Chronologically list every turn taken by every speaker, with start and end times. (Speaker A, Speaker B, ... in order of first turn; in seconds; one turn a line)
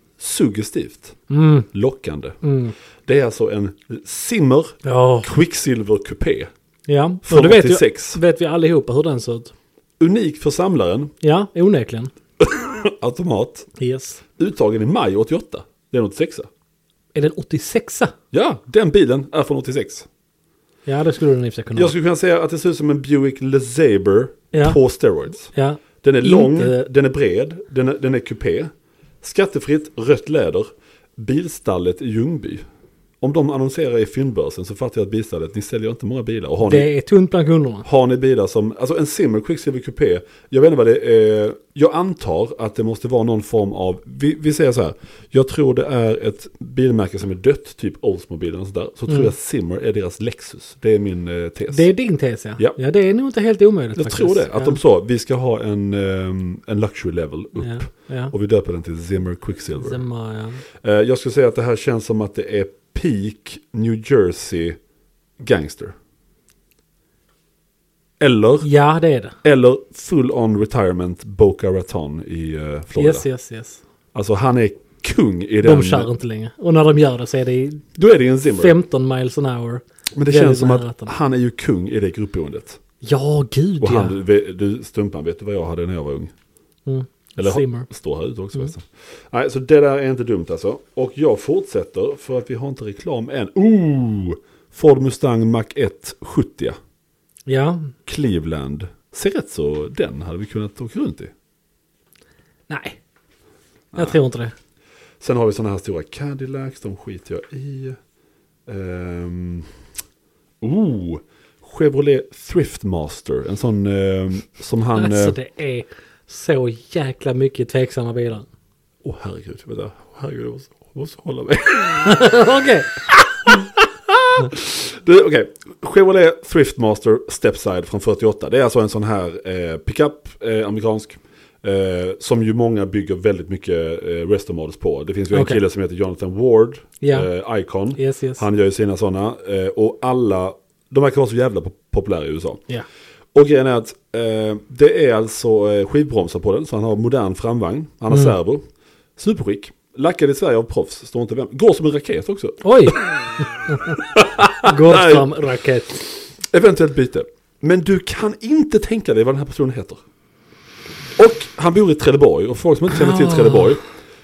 Speaker A: 0.2-2.4
Speaker B: 1.3-1.7
Speaker B: 2.4-2.7
Speaker A: 3.0-6.5
Speaker B: 4.8-5.3
Speaker B: 6.9-9.5
Speaker A: 7.2-8.2
Speaker A: 10.0-11.1
Speaker B: 11.2-12.1
Speaker A: 12.4-13.7
Speaker B: 13.8-14.2
Speaker A: 14.4-16.5
Speaker B: 17.1-18.1
Speaker A: 18.3-20.1
Speaker B: 20.9-21.9
Speaker A: 21.7-25.5
Speaker B: 24.5-24.8
Speaker B: 25.5-26.9
Speaker A: 26.0-28.7
Speaker A: 29.2-32.6
Speaker A: 33.2-36.9
Speaker B: 36.6-37.9
Speaker A: 37.8-51.9
Speaker B: 51.7-54.8
Speaker A: 54.0-60.0
Speaker B: 57.6-58.3
Speaker B: 59.7-60.6
Speaker A: 60.8-64.8
Speaker A: 65.4-65.9
Speaker A: 68.2-68.7
Speaker B: 68.6-69.3
Speaker A: 69.4-73.3
Speaker B: 73.0-73.8
Speaker A: 74.1-76.1
Speaker B: 75.6-77.9
Speaker A: 77.9-78.7
Speaker B: 78.5-81.1
Speaker A: 80.1-82.8
Speaker B: 83.0-84.2
Speaker A: 83.8-86.3
Speaker B: 86.8-87.9
Speaker A: 87.4-96.8
Speaker B: 97.5-97.9
Speaker A: 98.0-101.3
Speaker B: 102.7-103.0
Speaker A: 103.9-104.2
Speaker B: 103.9-104.5
Speaker A: 105.2-108.0
Speaker A: 108.7-109.7
Speaker A: 110.6-115.3
Speaker B: 115.0-118.5
Speaker A: 119.0-122.3
Speaker B: 122.0-122.9
Speaker A: 123.4-142.6
Speaker B: 135.3-135.6
Speaker B: 137.0-137.3
Speaker B: 137.9-138.4
Speaker A: 143.3-148.6
Speaker A: 149.2-153.0
Speaker B: 152.6-153.0
Speaker B: 153.7-154.0
Speaker A: 154.0-155.3
Speaker B: 154.6-156.1
Speaker A: 156.4-160.0
Speaker A: 161.2-163.8
Speaker B: 162.9-163.7